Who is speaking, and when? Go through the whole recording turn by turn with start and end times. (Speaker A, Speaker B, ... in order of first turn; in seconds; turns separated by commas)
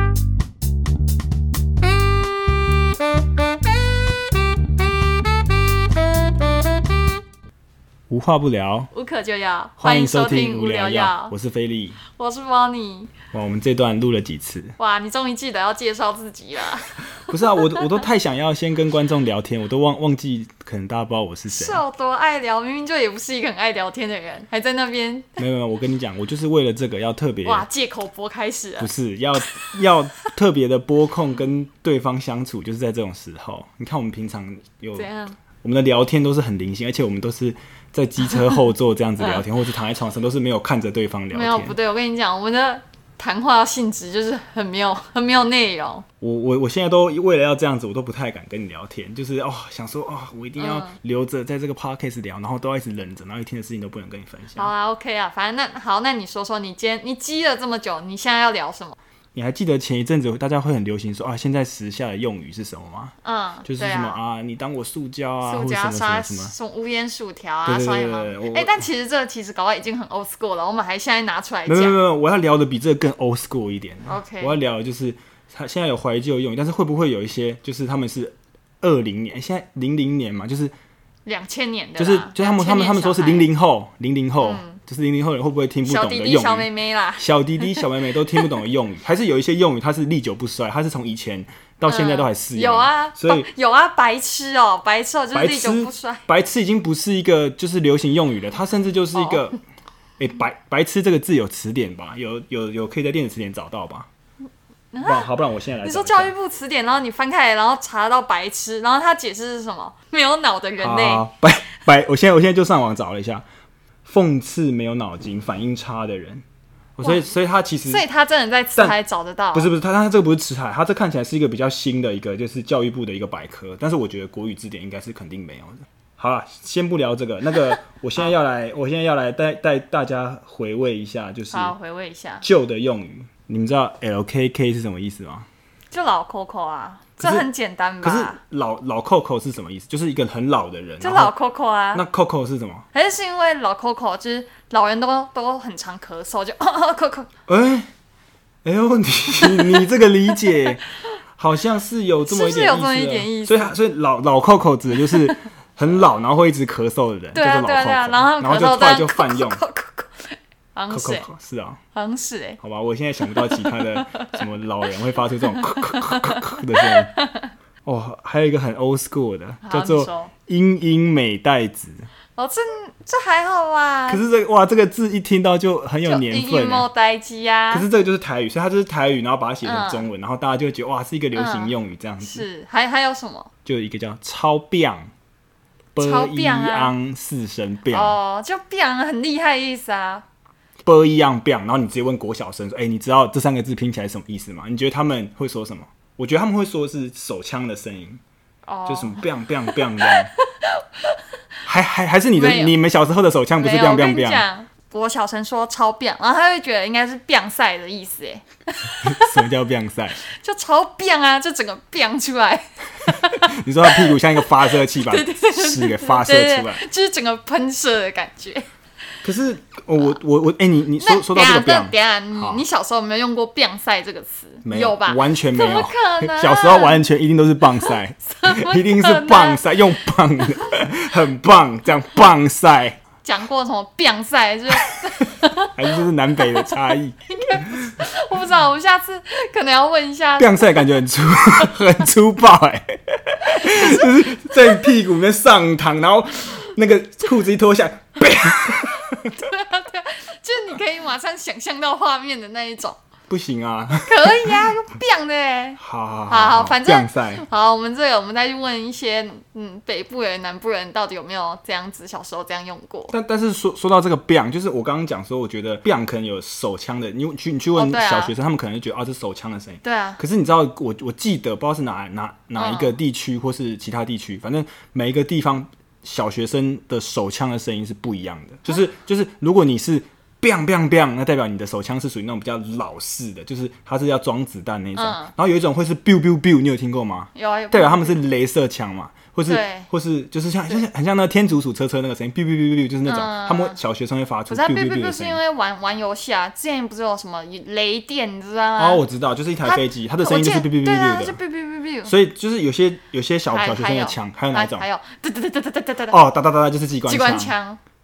Speaker A: 8.1-8.9, Speaker B: 8.9-11.3, Speaker A: 9.8-12.0, Speaker B: 12.1-13.1, Speaker A: 13.3-14.8, Speaker B: 14.8-17.9, Speaker A: 17.3-21.8, Speaker B: 21.5-25.4, Speaker A: 25.4-27.6, Speaker B: 27.4-28.9, Speaker A: 28.8-35.1, Speaker B: 35.0-35.4, Speaker A: 35.6-41.8, Speaker B: 41.3-46.0, Speaker A: 46.2-54.7, Speaker B: 50.6-51.0, Speaker B: 54.6-59.0, Speaker A: 59.3-63.1, Speaker B: 63.2-64.2, Speaker A: 63.6-66.5, Speaker B: 65.4-72.0, Speaker A: 67.7-68.8, Speaker A: 71.7-80.7, Speaker B: 74.1-74.6, Speaker B: 81.2-83.5, Speaker A: 82.0-93.5, Speaker B: 84.4-84.8, Speaker B: 85.8-88.5, Speaker B: 91.9-96.2, Speaker A: 95.3-99.6, Speaker B: 99.2-99.4, Speaker A: 100.2-104.1, Speaker B: 104.9-105.3, Speaker A: 105.0-106.3, Speaker B: 105.8-111.2, Speaker A: 110.8-113.5, Speaker A: 114.0-116.4, Speaker A: 117.0-118.0, Speaker B: 117.0-117.3, Speaker B: 117.9-119.7, Speaker A: 119.5-131.7, Speaker B: 131.5-132.4, Speaker A: 132.4-135.5, Speaker B: 135.9-138.4, Speaker A: 137.2-137.5, Speaker A: 138.0-141.3, Speaker B: 141.0-142.0, Speaker A: 141.9-142.8, Speaker B: 142.9-147.3, Speaker A: 147.5-147.9, Speaker A: 148.6-150.8, Speaker B: 149.4-150.6, Speaker A: 151.3-159.6, Speaker B: 152.2-153.8, Speaker B: 157.3-161.2, Speaker A: 160.9-161.8, Speaker B: 161.9-162.6, Speaker A: 162.6-167.1, Speaker B: 163.3-164.4, Speaker B: 165.5-167.5, Speaker A: 167.8-172.1, Speaker B: 169.6-170.3, Speaker B: 172.3-174.2, Speaker A: 174.1-176.9, Speaker B: 176.1-177.9, Speaker A: 177.7-182.4, Speaker B: 179.6-180.1, Speaker B: 181.3-183.5, Speaker A: 183.7-185.1, Speaker A: 185.9-188.2, Speaker B: 186.0-186.9, Speaker B: 187.9-190.2, Speaker A: 190.8-198.2, Speaker B: 198.7-199.2, Speaker A: 198.9-200.3, Speaker B: 199.8-201.2, Speaker A: 201.7-204.4, Speaker B: 202.3-202.7, Speaker B: 203.6-209.4, Speaker A: 209.0-210.2, Speaker B: 210.3-218.7, Speaker A: 213.4-216.8, Speaker A: 219.2-222.6, Speaker B: 221.0-227.0, Speaker A: 224.7-233.0, Speaker B: 227.9-229.7, Speaker B: 233.2-235.7, Speaker A: 235.7-238.0, Speaker B: 237.3-240.8, Speaker A: 240.4-249.4, Speaker B: 243.5-244.9, Speaker B: 248.8-253.0, Speaker A: 253.3-254.7, Speaker B: 254.0-263.1, Speaker A: 255.8-257.4, Speaker A: 263.1-295.4, Speaker B: 267.7-268.3, Speaker B: 269.8-270.2, Speaker B: 272.6-272.9, Speaker B: 284.9-285.3, Speaker B: 287.3-288.2, Speaker B: 289.5-289.9, Speaker B: 293.1-293.8, Speaker B: 294.5-299.0, Speaker A: 298.8-301.4, Speaker B: 299.6-302.1, Speaker A: 302.1-304.9, Speaker B: 303.5-306.2, Speaker A: 306.1-307.5, Speaker B: 307.1-307.8